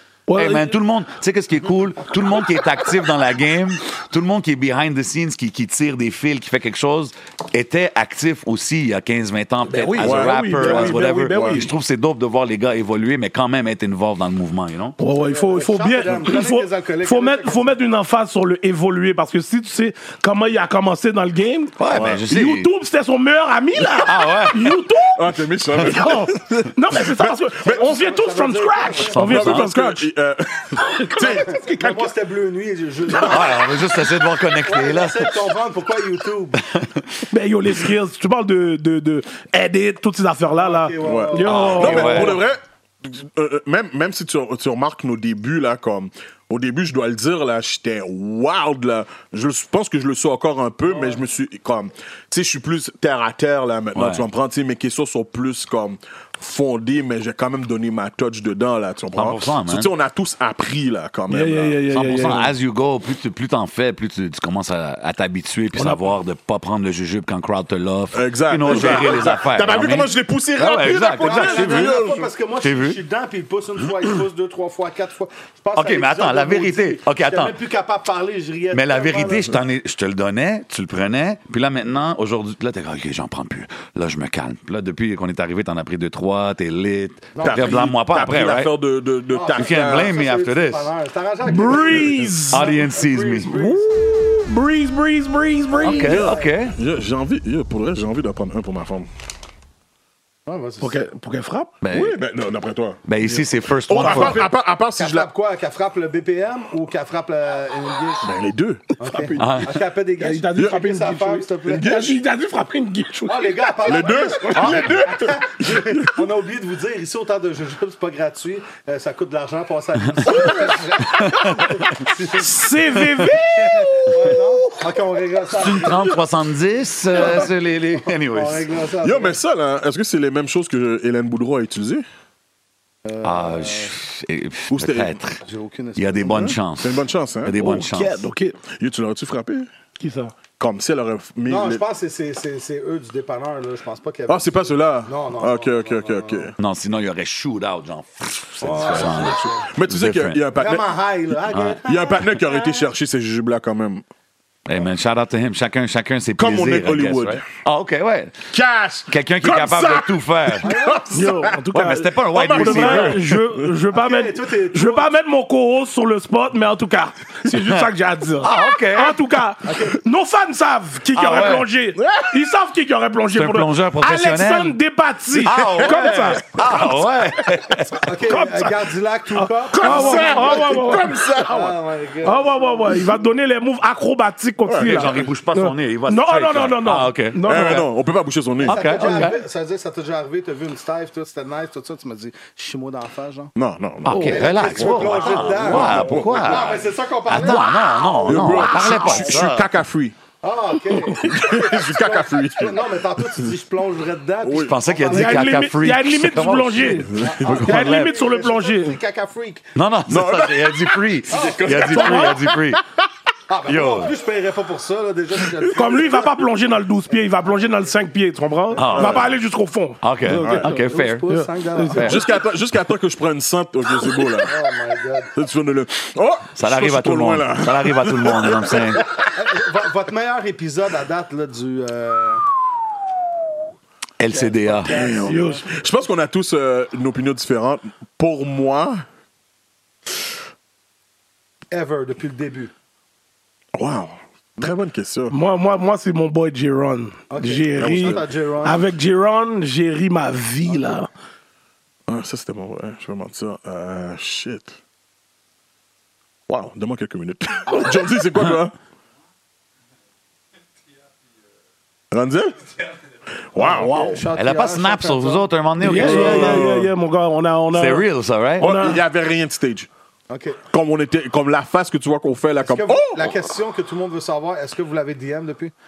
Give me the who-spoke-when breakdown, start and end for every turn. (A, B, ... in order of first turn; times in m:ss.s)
0:00.3-0:00.8 A
0:00.3-0:15.0 B
0:09.6-0:11.7 A
0:10.0-0:11.6 C
0:15.0-0:30.1 A
0:15.1-0:17.7 D
0:21.8-0:22.7 B
0:21.9-0:22.2 C
0:24.0-0:24.7 B
0:25.1-0:28.0 C
0:27.6-0:29.2 D
0:29.1-0:29.7 B
0:29.2-0:31.6 C
0:30.8-0:32.1 A
0:31.1-0:33.7 D
0:33.1-0:33.5 A
0:33.2-0:35.4 B
0:34.6-0:36.6 D
0:36.6-0:37.2 B
0:37.3-0:42.4 A
0:40.6-0:42.4 D
0:41.0-1:02.3 C
0:41.4-0:42.4 B
0:50.9-0:51.2 D
0:53.9-0:54.2 B
0:59.1-0:59.9 B
1:01.3-1:02.5 A
1:01.9-1:11.9 B
1:05.7-1:06.0 A
1:08.1-1:12.3 C
1:10.8-1:19.6 D
1:12.6-1:13.0 B
1:15.8-1:17.6 B
1:18.7-1:28.7 B
1:27.3-1:27.8 D
1:27.4-1:30.1 C
1:29.3-1:34.1 D
1:29.5-1:30.9 B
1:31.4-1:32.7 A
1:31.8-1:32.4 C
1:32.5-1:33.5 B
1:33.5-1:36.3 A
1:35.8-1:36.7 B
1:35.9-1:39.1 C
1:36.0-1:36.5 D
1:40.5-1:41.1 D
1:40.8-1:41.7 A
1:41.8-1:42.2 B
1:41.9-1:45.3 C
1:43.1-1:44.4 B
1:44.1-1:44.4 D
1:45.0-1:48.3 D
1:48.2-1:49.7 C
1:49.0-1:52.0 D
1:49.4-1:49.7 B
1:50.2-1:53.8 A
1:50.6-1:50.8 C
1:51.7-1:52.2 C
1:53.3-2:02.8 D
1:53.9-1:56.2 C
2:00.3-2:00.8 C
2:01.0-2:01.8 B
2:02.4-2:04.6 A
2:02.9-2:03.3 B
2:03.5-2:06.2 D
2:05.5-2:08.7 B
2:07.1-2:09.4 D
2:09.0-2:12.0 C
2:13.0-2:13.9 D
2:13.2-2:15.4 B
2:14.7-2:15.2 C
2:15.4-2:16.6 D
2:16.0-2:18.3 B
2:16.3-2:17.6 C
2:17.6-2:18.6 A
2:18.7-2:19.7 C
2:20.0-2:20.3 A
2:20.6-2:21.8 C
2:21.4-2:26.5 D
2:24.3-2:26.5 C
2:26.6-2:30.4 B
2:28.6-2:29.7 D
2:28.8-2:30.9 C
2:30.5-2:32.9 D
2:31.5-2:31.8 B
2:31.8-2:34.0 C
2:34.7-2:38.4 B
2:36.4-2:37.4 C
2:38.5-2:41.6 C
2:39.1-2:40.7 B
2:40.6-2:41.2 D
2:41.1-2:56.4 A
2:41.7-2:43.2 B
2:42.3-2:43.6 C
2:43.9-2:45.2 D
2:47.5-2:47.9 B
2:48.4-2:49.2 B
2:49.6-2:50.0 D
2:51.1-2:51.6 B
2:52.0-2:52.5 C
2:53.3-2:54.7 B
2:55.4-2:58.1 B
2:55.6-2:57.0 C
2:58.0-3:03.0 D
2:58.2-2:58.8 A
2:59.4-3:01.3 A
2:59.7-3:01.7 C
3:02.2-3:07.9 A
3:04.6-3:05.3 C
3:04.8-3:07.8 B
3:07.4-3:08.8 C
3:08.6-3:09.4 B
3:08.6-3:13.5 D
3:13.6-3:16.8 C
3:14.0-3:19.7 B
3:14.0-3:14.5 A
3:14.2-3:18.5 D
3:18.2-3:20.1 C
3:18.5-3:19.4 A
3:20.4-3:25.6 D
3:21.0-3:22.8 C
3:24.4-3:24.8 C
3:24.6-3:28.1 B
3:25.1-3:29.0 A
3:27.1-3:27.7 C
3:27.1-3:29.6 D
3:29.7-3:32.8 B
3:30.1-3:32.8 C
3:31.3-3:31.7 D
3:31.7-3:32.4 A
3:33.5-3:36.4 D
3:33.7-3:34.1 B
3:35.5-3:36.3 C
3:35.7-3:42.2 A
3:37.1-3:38.0 D
3:38.8-3:39.3 B
3:38.8-3:39.3 C
3:40.0-3:41.2 B
3:40.3-3:40.7 C
3:40.6-3:42.3 D
3:42.0-3:44.5 C
3:44.4-3:45.3 D
3:45.3-3:49.1 C
3:46.6-3:49.1 B
3:49.3-3:52.4 D
3:54.2-3:55.0 B
3:54.3-3:55.7 D
3:54.9-3:59.0 C
3:55.1-3:55.7 A
4:01.7-4:02.7 D
4:03.7-4:05.3 C
4:05.3-4:11.1 A
4:07.3-4:08.9 D
4:07.8-4:08.3 C
4:12.1-4:14.7 C
4:16.5-4:18.7 C
4:22.1-4:22.7 C
4:23.5-4:24.0 C
4:23.6-4:25.5 D
4:23.6-4:24.2 A
4:24.3-4:26.7 B
4:25.8-4:28.1 A
4:25.9-4:26.9 C
4:27.7-4:28.7 B
4:28.6-4:29.0 A
4:28.6-4:29.9 C
4:30.3-4:30.6 D
4:30.7-4:33.3 C
4:32.6-4:35.7 D